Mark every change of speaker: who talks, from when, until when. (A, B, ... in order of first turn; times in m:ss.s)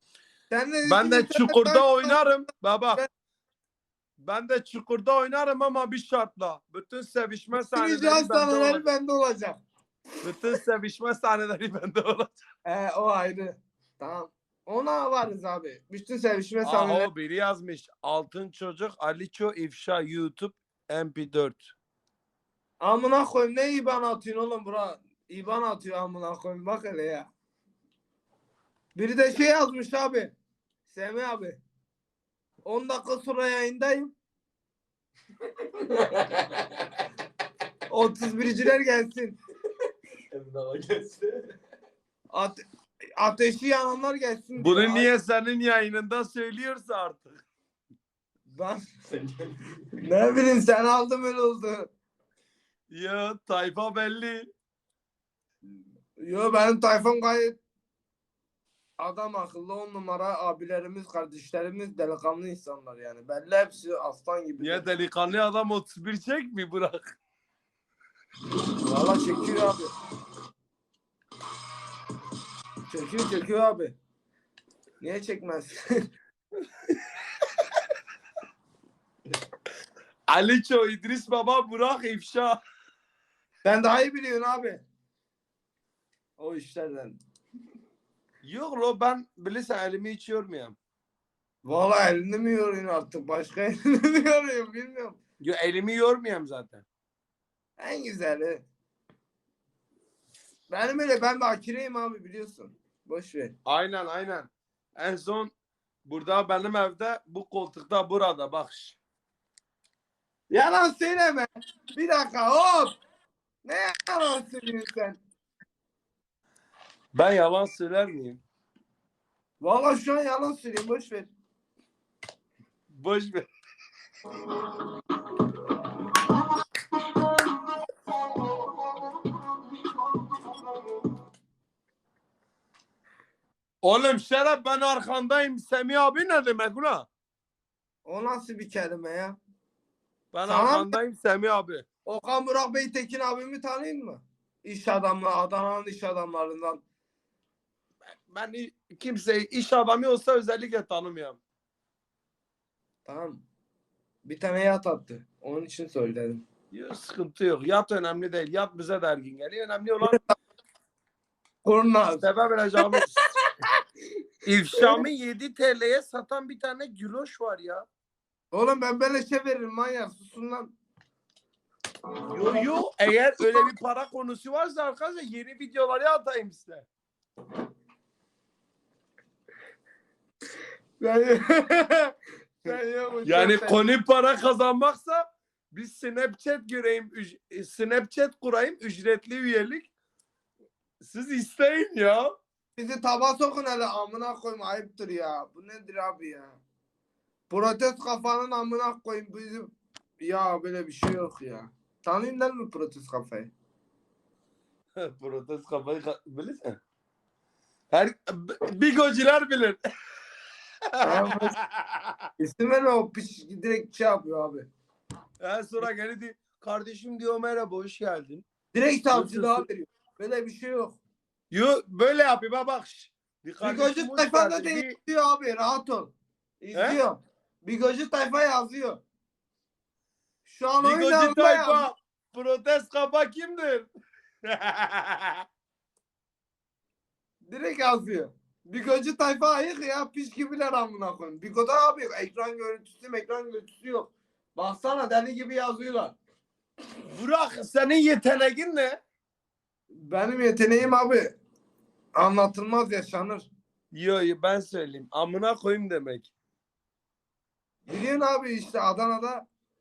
0:00.5-0:02.2 A
0:00.8-0:03.0 B
0:04.2-0:08.9 B
0:07.5-0:09.6 A
0:10.2-0:12.4 B
0:12.6-0:17.1 A
0:16.6-0:21.7 B
0:22.8-0:27.3 A
0:28.9-0:30.3 A
0:30.9-0:31.6 A
0:32.6-0:34.1 A
0:37.9-0:39.4 A
0:40.3-0:41.4 B
0:42.3-0:42.6 A
0:43.2-0:45.1 A
0:44.6-0:47.4 B
0:48.5-0:48.8 A
0:50.0-0:51.9 A
0:52.9-0:54.5 B
0:56.2-0:57.6 A
0:59.0-1:04.9 A
1:04.6-1:07.1 B
1:08.8-1:09.9 A
1:12.9-1:14.0 A
1:15.0-1:15.8 A
1:20.3-1:22.6 B
1:23.6-1:24.8 A
1:26.4-1:27.2 A
1:28.4-1:30.8 B
1:31.6-1:35.2 A
1:35.4-1:36.8 B
1:37.8-1:38.6 A
1:40.7-1:43.6 A
1:43.6-1:45.5 B
1:46.0-1:49.0 B
1:50.5-1:52.9 A
1:53.6-1:55.2 A
1:57.1-1:58.4 B
1:59.6-2:01.3 A
2:02.9-2:03.5 B
2:13.8-2:17.1 B
2:18.0-2:19.4 A
2:20.3-2:21.8 B
2:20.4-2:21.0 A
2:22.0-2:26.8 A
2:28.3-2:31.4 B
2:33.0-2:33.4 A
2:34.2-2:36.4 A
2:36.7-2:40.2 B
2:41.6-2:42.2 A
2:42.2-2:43.1 B
2:44.4-2:47.9 B
2:44.8-2:45.0 A
2:48.5-2:50.7 A
2:52.3-2:56.9 B
3:01.0-3:03.8 A
3:02.7-3:09.9 B
3:11.0-3:12.3 B
3:12.8-3:16.6 A
3:17.5-3:23.5 A
3:25.0-3:26.8 B
3:27.9-3:29.8 B
3:31.0-3:32.1 B
3:31.0-3:31.5 A
3:32.4-3:34.7 A
3:35.4-3:38.4 B
3:38.7-3:41.0 A
3:39.1-3:39.6 B
3:41.5-3:44.9 B
3:43.6-3:49.0 A
3:46.7-3:47.0 B
3:50.4-3:51.9 A
3:50.8-3:53.9 B
3:54.5-3:55.4 B
3:57.4-4:06.2 A
4:07.1-4:09.0 B
4:09.9-4:11.4 A
4:12.1-4:13.5 A
4:13.9-4:16.3 B
4:17.9-4:19.4 A